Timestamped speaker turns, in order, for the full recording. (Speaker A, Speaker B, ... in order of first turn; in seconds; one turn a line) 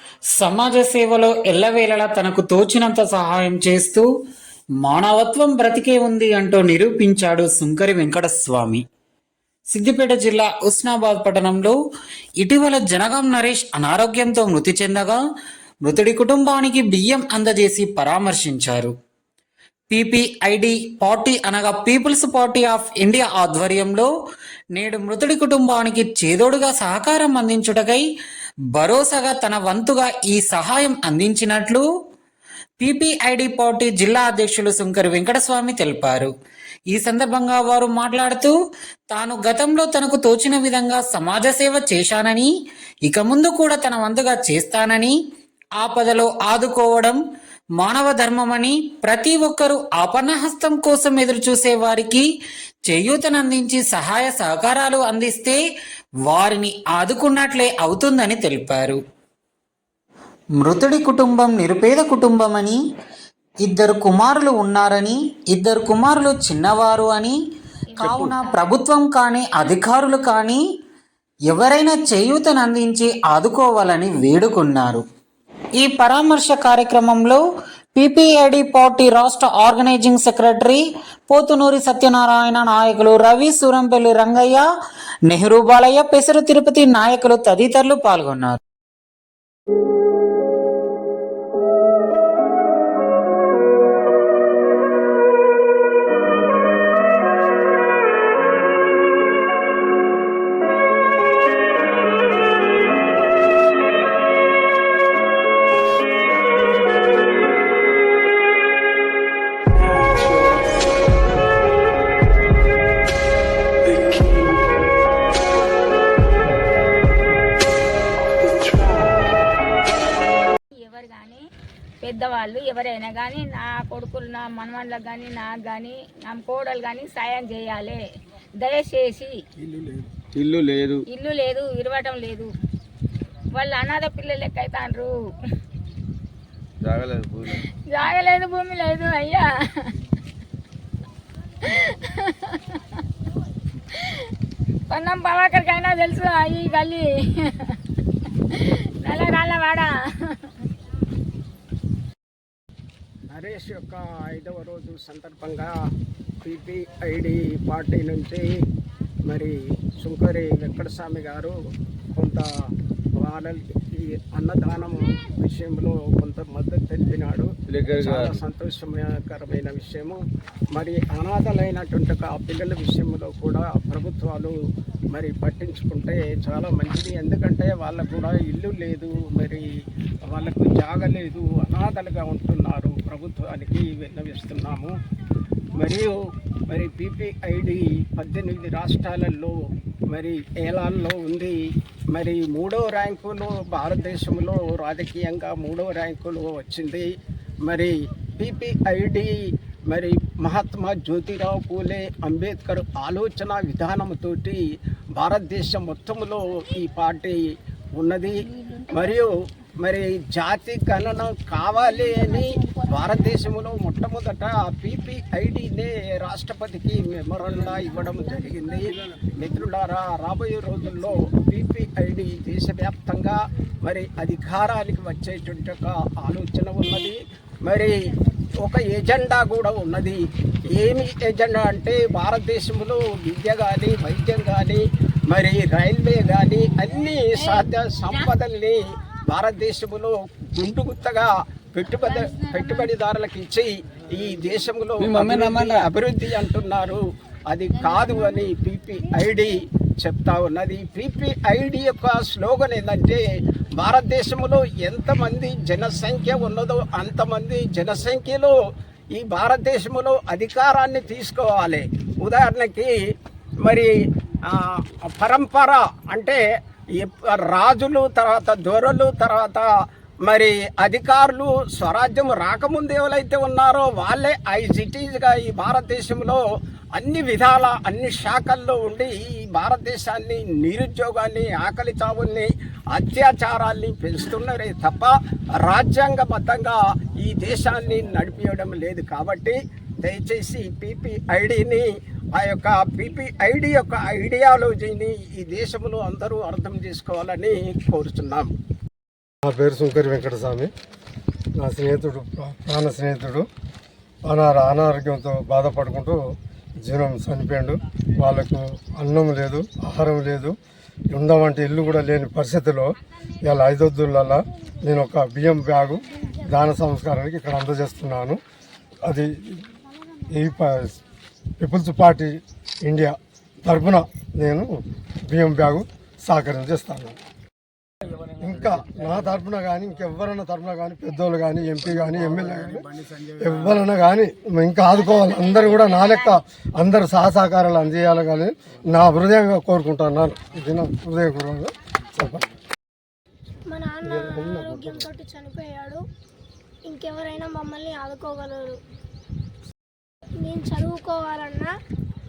Speaker A: 0.3-4.1
Speaker A: 4.8-8.8
Speaker A: 9.7-11.8
Speaker A: 12.4-15.2
Speaker A: 15.8-18.9
Speaker A: 19.9-24.1
Speaker A: 24.7-28.1
Speaker A: 28.7-31.8
Speaker A: 32.8-36.3
Speaker A: 36.9-38.5
Speaker A: 39.1-42.5
Speaker A: 43.0-45.1
Speaker A: 45.8-47.2
Speaker A: 47.8-52.2
Speaker A: 52.9-55.6
Speaker A: 56.2-59.0
Speaker A: 60.6-62.8
Speaker A: 63.6-67.4
Speaker B: 67.9-68.7
Speaker A: 68.0-70.6
Speaker A: 71.5-75.0
Speaker A: 75.8-77.4
Speaker A: 78.0-84.6
Speaker A: 85.3-88.6
Speaker B: 120.7-121.4
Speaker B: 122.0-128.0
Speaker B: 128.6-129.3
Speaker C: 130.2-131.0
Speaker B: 131.1-132.5
Speaker B: 133.5-135.1
Speaker C: 136.8-137.6
Speaker B: 137.9-139.9
Speaker B: 141.6-142.8
Speaker B: 143.9-144.2
Speaker B: 144.9-147.8
Speaker B: 148.5-150.5
Speaker D: 153.3-155.7
Speaker D: 156.4-158.5
Speaker D: 159.2-161.5
Speaker D: 162.1-162.5
Speaker D: 163.2-174.5
Speaker C: 167.7-168.4
Speaker D: 175.1-179.7
Speaker D: 180.2-184.9
Speaker D: 185.7-186.2
Speaker D: 186.7-189.6
Speaker D: 190.1-228.0
Speaker D: 228.6-253.2
Speaker C: 245.0-245.9
Speaker D: 253.8-258.5
Speaker D: 259.1-262.9
Speaker D: 263.6-263.9
Speaker D: 264.5-266.4
Speaker D: 266.9-269.7
Speaker D: 270.2-276.4
Speaker D: 276.9-298.5
Speaker E: 299.4-300.7
Speaker E: 301.6-303.4
Speaker E: 304.2-310.6
Speaker E: 311.1-318.4
Speaker E: 319.0-319.7
Speaker E: 320.3-321.0
Speaker E: 321.6-327.2
Speaker E: 328.3-342.4
Speaker F: 343.7-346.0
Speaker E: 344.1-345.0
Speaker F: 346.9-348.8
Speaker F: 350.4-351.7